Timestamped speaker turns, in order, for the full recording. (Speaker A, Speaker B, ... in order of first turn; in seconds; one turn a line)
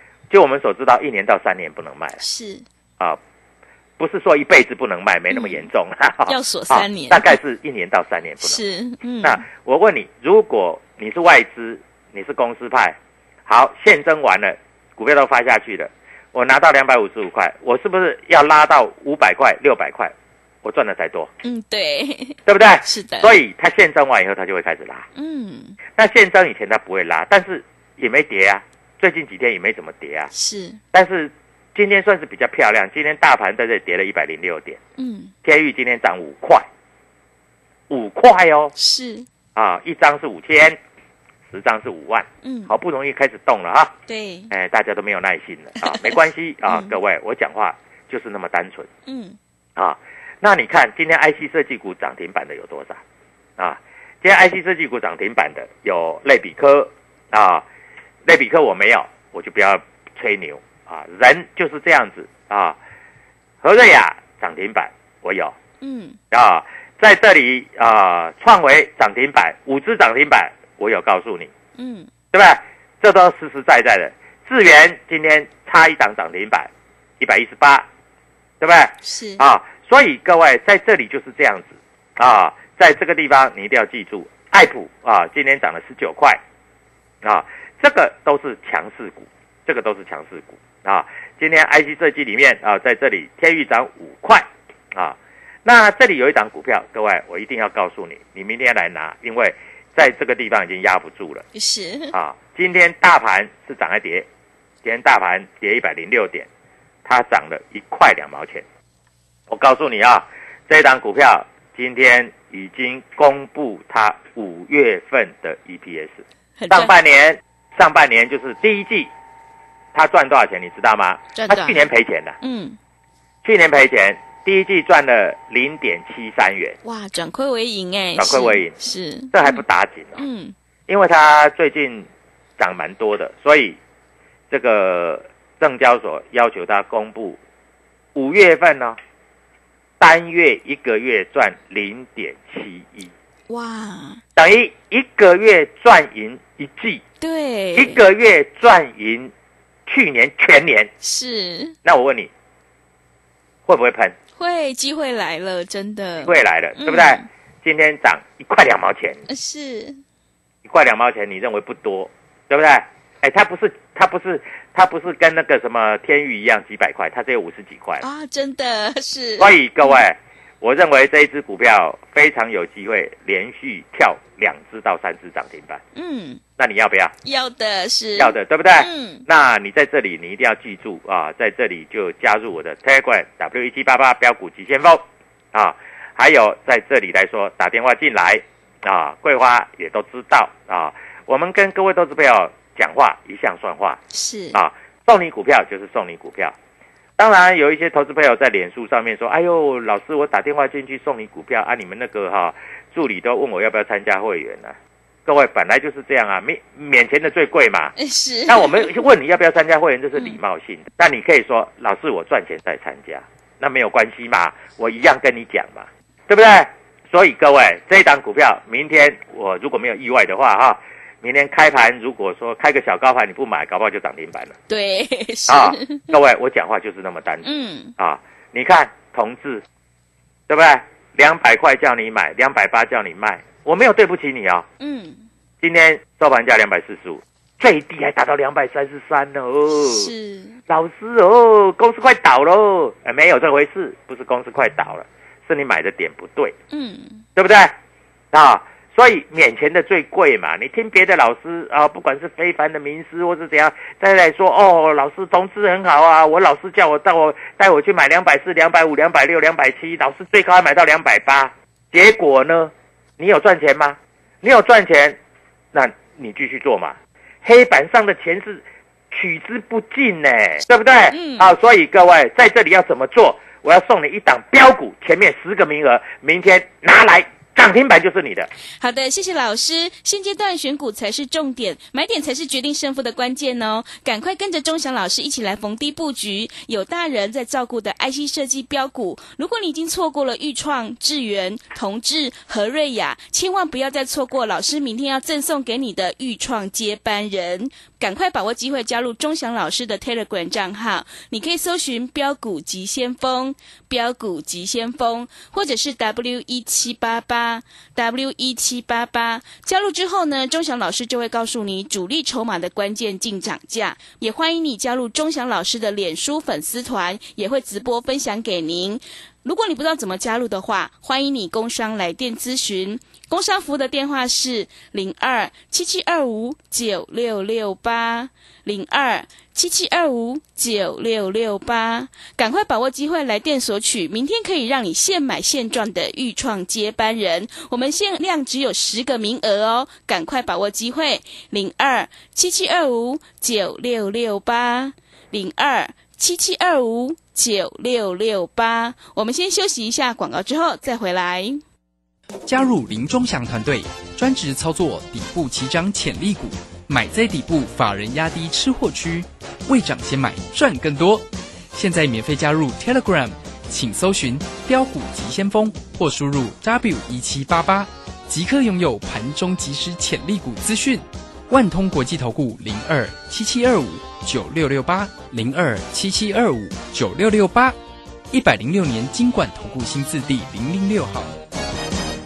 Speaker A: 0.3-2.2
Speaker B: 2.2-2.6
Speaker A: 4.0-8.6
Speaker B: 5.3-5.7
Speaker B: 6.2-7.4
Speaker B: 8.4-9.4
Speaker A: 9.2-21.3
Speaker B: 21.4-23.4
Speaker A: 22.4-25.1
Speaker B: 25.1-25.8
Speaker A: 25.9-30.3
Speaker B: 30.3-30.8
Speaker A: 30.9-34.8
Speaker B: 35.0-35.3
Speaker A: 35.4-36.7
Speaker A: 37.9-38.7
Speaker B: 38.8-39.2
Speaker A: 39.5-40.8
Speaker A: 41.5-43.9
Speaker B: 42.4-42.7
Speaker B: 44.1-44.5
Speaker A: 44.5-48.9
Speaker B: 45.8-46.1
Speaker B: 46.7-46.9
Speaker B: 49.1-49.4
Speaker A: 49.8-53.0
Speaker A: 53.6-57.6
Speaker A: 58.2-62.8
Speaker A: 63.6-65.5
Speaker B: 65.8-66.2
Speaker A: 66.3-71.5
Speaker B: 71.8-72.1
Speaker A: 72.3-77.9
Speaker A: 78.6-86.4
Speaker B: 79.0-79.4
Speaker A: 87.2-101.4
Speaker B: 101.5-102.1
Speaker A: 102.1-104.3
Speaker A: 104.8-106.5
Speaker A: 107.0-108.6
Speaker A: 109.5-119.1
Speaker B: 116.6-116.9
Speaker A: 119.9-122.4
Speaker B: 121.3-121.9
Speaker B: 122.4-122.8
Speaker A: 123.4-126.8
Speaker B: 126.8-129.3
Speaker A: 128.2-128.7
Speaker A: 129.3-130.2
Speaker B: 130.2-130.5
Speaker A: 130.9-133.8
Speaker A: 134.5-137.4
Speaker A: 138.1-139.0
Speaker A: 140.0-143.1
Speaker B: 143.5-144.2
Speaker A: 144.3-147.0
Speaker B: 147.2-148.0
Speaker A: 147.7-149.3
Speaker A: 149.8-150.9
Speaker B: 151.0-151.8
Speaker A: 151.8-152.3
Speaker A: 153.7-154.2
Speaker B: 154.3-157.2
Speaker A: 156.2-159.2
Speaker B: 159.3-160.0
Speaker A: 160.6-168.0
Speaker B: 168.0-170.0
Speaker A: 169.4-175.8
Speaker B: 175.9-176.4
Speaker A: 176.6-177.1
Speaker B: 177.2-179.2
Speaker A: 178.2-194.0
Speaker B: 194.1-194.6
Speaker A: 194.5-196.5
Speaker A: 197.2-207.9
Speaker B: 208.0-209.0
Speaker A: 208.5-224.6
Speaker B: 224.7-226.1
Speaker A: 225.5-229.6
Speaker B: 227.4-227.9
Speaker A: 230.5-234.7
Speaker B: 234.8-235.2
Speaker A: 235.6-240.1
Speaker B: 239.7-240.6
Speaker A: 240.7-246.5
Speaker B: 246.7-247.2
Speaker A: 247.3-247.7
Speaker A: 248.3-265.2
Speaker A: 265.7-278.5
Speaker B: 271.1-271.5
Speaker B: 278.8-351.6
Speaker C: 352.4-377.7
Speaker C: 378.3-381.3